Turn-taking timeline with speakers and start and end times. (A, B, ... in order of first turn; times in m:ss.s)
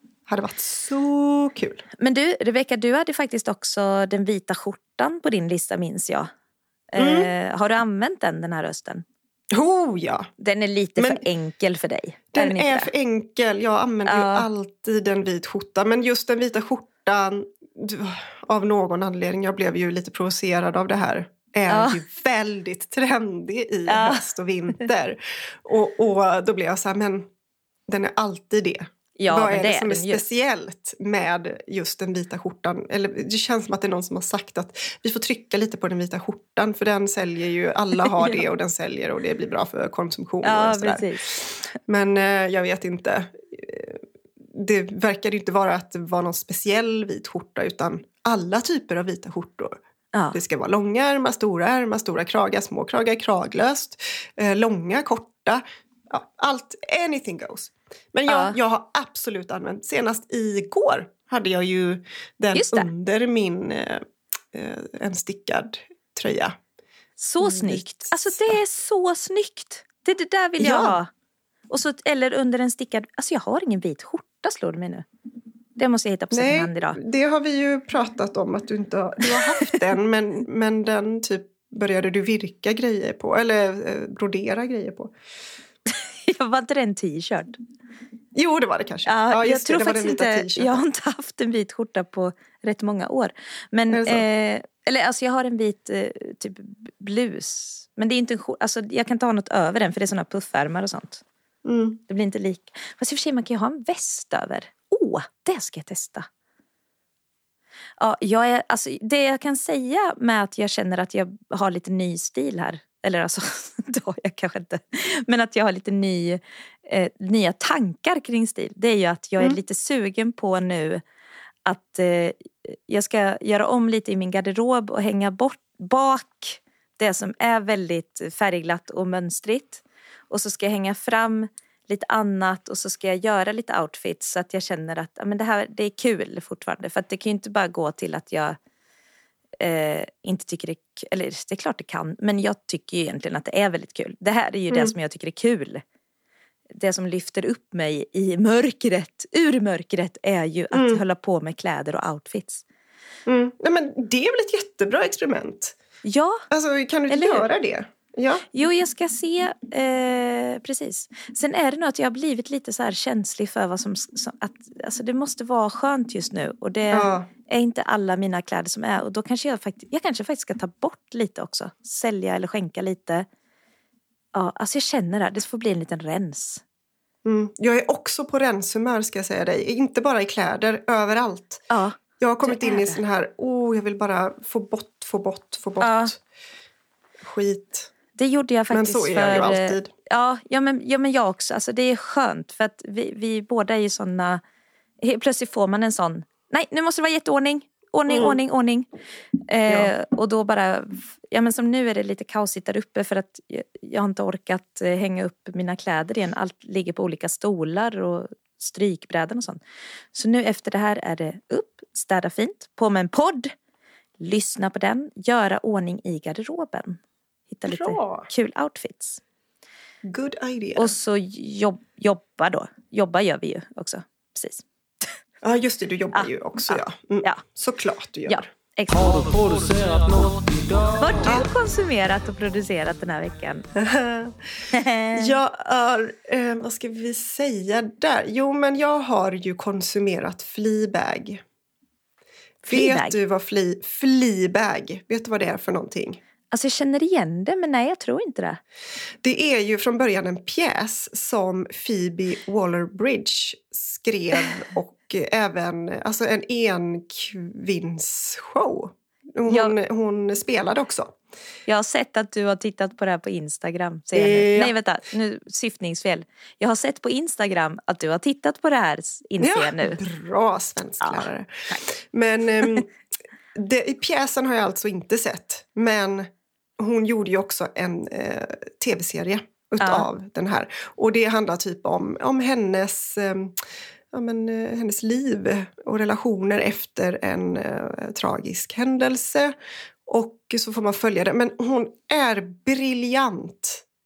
0:00.3-0:01.8 A
0:02.0-0:06.3 B
0:06.9-0:09.0 B
0:07.0-0:07.3 A
0:09.5-0:10.3 A
0:10.4-0:12.9 B
0:11.0-0:11.2 A
0:12.3-0:27.3 A
0:14.1-0:14.5 B
0:21.7-0:22.0 B
0:23.9-0:24.2 B
0:27.9-0:44.0 A
0:29.2-0:30.2 B
0:38.2-0:38.4 B
0:40.4-0:41.2 B
0:44.5-0:49.7 A
0:50.3-1:06.6 A
0:58.3-0:58.6 B
1:02.5-1:02.9 B
1:07.2-1:11.1 B
1:07.4-1:08.6 A
1:10.6-1:11.0 A
1:11.7-1:15.0 B
1:15.8-1:17.0 B
1:16.3-1:25.1 A
1:19.4-1:19.7 B
1:25.9-1:27.6 B
1:28.3-1:30.8 A
1:29.0-1:41.2 B
1:33.9-1:34.2 A
1:41.6-1:42.0 A
1:42.1-1:46.3 B
1:48.0-2:01.0 B
2:01.6-2:18.6 B
2:19.6-2:25.8 B
2:26.7-2:32.6 B
2:30.7-2:31.0 A
2:33.3-2:35.8 A
2:36.0-2:36.4 B
2:36.5-2:38.4 A
2:37.1-2:37.5 B
2:38.5-2:53.3 B
2:46.9-2:47.3 A
2:54.3-2:56.6 B
2:57.2-3:01.6 A
3:01.7-3:03.0 B
3:02.2-3:06.2 A
3:05.8-3:06.1 B
3:07.2-3:07.9 A
3:08.2-3:14.4 B
3:08.7-3:09.9 A
3:15.0-3:18.9 B
3:18.1-3:18.4 A
3:19.5-3:29.6 B
3:19.7-3:19.9 A
3:30.1-3:33.5 B
3:34.2-3:39.2 B
3:37.6-3:38.3 A
3:40.1-3:40.9 A
3:40.8-3:44.6 B
3:45.4-3:48.5 A
3:46.1-3:47.4 B
3:48.3-3:49.4 B
3:48.9-3:51.4 C
3:51.0-3:53.7 B
3:53.7-3:54.4 A
3:54.7-3:55.4 B
3:55.1-4:01.4 A
4:02.6-4:03.2 B
4:02.7-4:06.2 A
4:06.5-4:08.6 B
4:09.2-4:21.1 A
4:19.5-4:19.7 B
4:21.7-4:30.0 B
4:24.1-4:24.7 A
4:29.4-4:32.9 A
4:31.0-4:31.8 B
4:33.5-4:43.5 A
4:39.8-4:40.1 B
4:44.1-4:49.5 A
4:50.1-4:53.8 A